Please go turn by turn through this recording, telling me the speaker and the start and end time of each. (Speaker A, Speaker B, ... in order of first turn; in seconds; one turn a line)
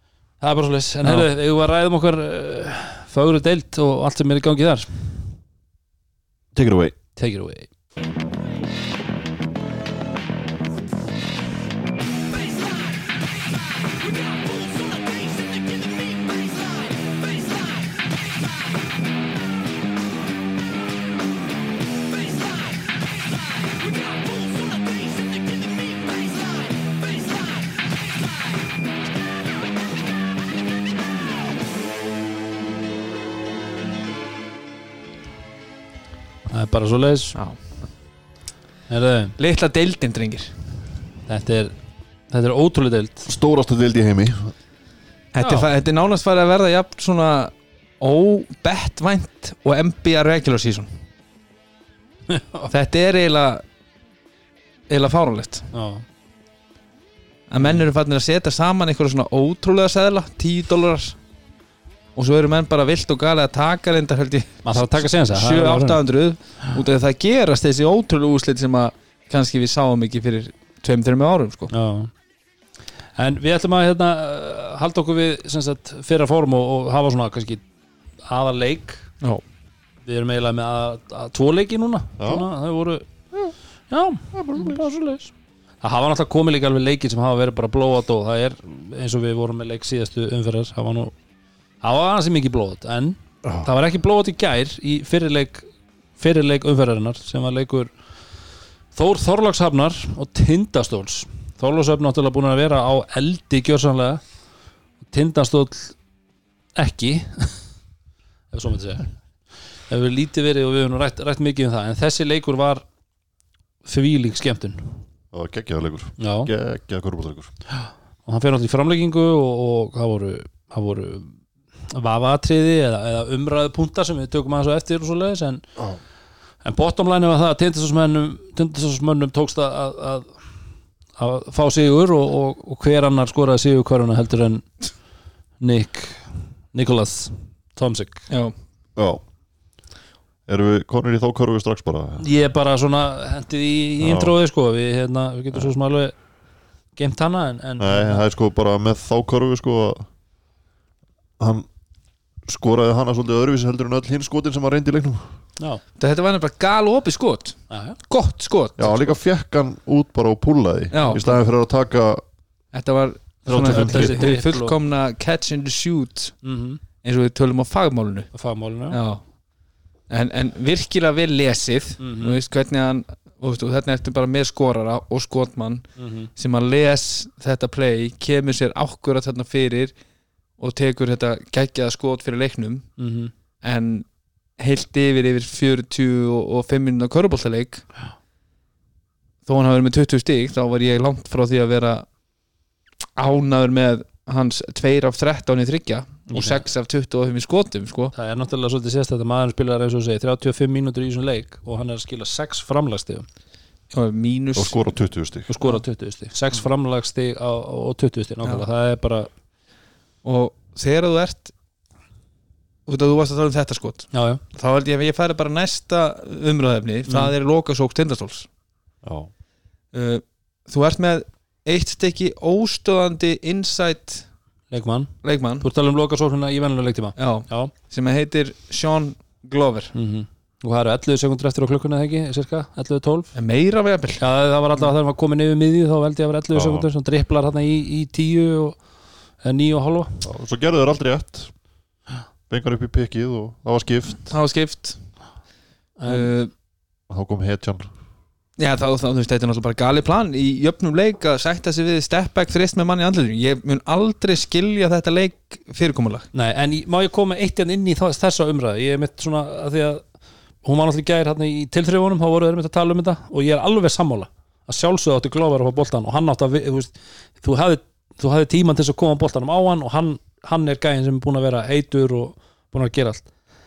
Speaker A: 0.4-5.3
Speaker B: 6.5-7.0
Speaker A: 7.2-7.7
Speaker A: 36.5-37.4
Speaker C: 37.4-37.6
Speaker A: 38.9-39.4
Speaker C: 39.4-40.5
Speaker A: 41.3-41.8
Speaker A: 42.3-43.3
Speaker B: 43.3-44.5
Speaker C: 45.3-51.0
Speaker A: 45.4-45.7
Speaker A: 52.3-52.7
Speaker C: 52.7-53.6
Speaker C: 54.9-55.7
Speaker A: 55.7-56.1
Speaker C: 57.5-61.2
Speaker C: 62.2-71.7
Speaker A: 64.6-66.0
Speaker A: 71.7-72.1
Speaker A: 73.2-77.6
Speaker A: 78.3-79.0
Speaker A: 80.0-83.0
Speaker B: 82.2-82.5
Speaker A: 83.9-85.3
Speaker B: 84.3-84.9
Speaker A: 85.8-91.2
Speaker A: 91.8-95.7
Speaker B: 93.4-93.7
Speaker A: 96.2-97.9
Speaker A: 98.9-104.2
Speaker A: 105.0-106.0
Speaker A: 106.8-107.7
Speaker A: 108.5-109.2
Speaker A: 109.7-112.8
Speaker A: 113.8-115.0
Speaker B: 115.3-117.5
Speaker A: 116.2-116.5
Speaker A: 118.3-121.4
Speaker A: 121.9-125.7
Speaker A: 126.6-130.4
Speaker A: 131.2-134.7
Speaker A: 135.6-138.3
Speaker C: 138.3-138.5
Speaker B: 139.0-139.2
Speaker B: 140.5-142.2
Speaker A: 142.2-146.2
Speaker B: 144.0-144.3
Speaker A: 147.0-148.2
Speaker B: 147.8-150.1
Speaker B: 151.4-151.7
Speaker B: 152.5-155.3
Speaker C: 156.0-159.0
Speaker A: 157.7-158.0
Speaker B: 158.8-162.2
Speaker C: 160.9-161.2
Speaker C: 162.7-166.4
Speaker B: 163.5-164.3
Speaker A: 163.5-164.8
Speaker A: 166.4-166.8
Speaker C: 167.0-168.3
Speaker A: 168.3-169.0
Speaker C: 168.9-169.2
Speaker C: 170.1-179.9
Speaker A: 172.0-172.4
Speaker A: 176.0-176.3
Speaker C: 180.6-182.9
Speaker A: 183.0-183.3
Speaker C: 183.6-184.1
Speaker C: 184.6-187.8
Speaker C: 189.5-192.1
Speaker C: 193.2-198.1
Speaker A: 196.3-196.6
Speaker A: 198.2-203.3
Speaker C: 203.9-204.8
Speaker B: 204.6-205.5
Speaker A: 205.5-209.3
Speaker C: 210.2-211.5
Speaker C: 212.9-218.5
Speaker A: 214.1-214.4
Speaker B: 219.0-219.3
Speaker C: 219.9-224.3
Speaker A: 224.7-227.7
Speaker C: 225.2-225.7
Speaker C: 227.2-229.9
Speaker A: 229.9-233.3
Speaker C: 233.3-234.2
Speaker A: 234.2-238.8
Speaker B: 236.5-236.9
Speaker A: 239.4-240.3
Speaker B: 240.2-241.5
Speaker B: 242.5-244.4
Speaker C: 244.3-245.0
Speaker A: 246.0-246.3
Speaker C: 246.1-246.5
Speaker B: 247.1-247.9
Speaker C: 248.6-256.3
Speaker A: 256.3-260.1
Speaker A: 260.6-273.3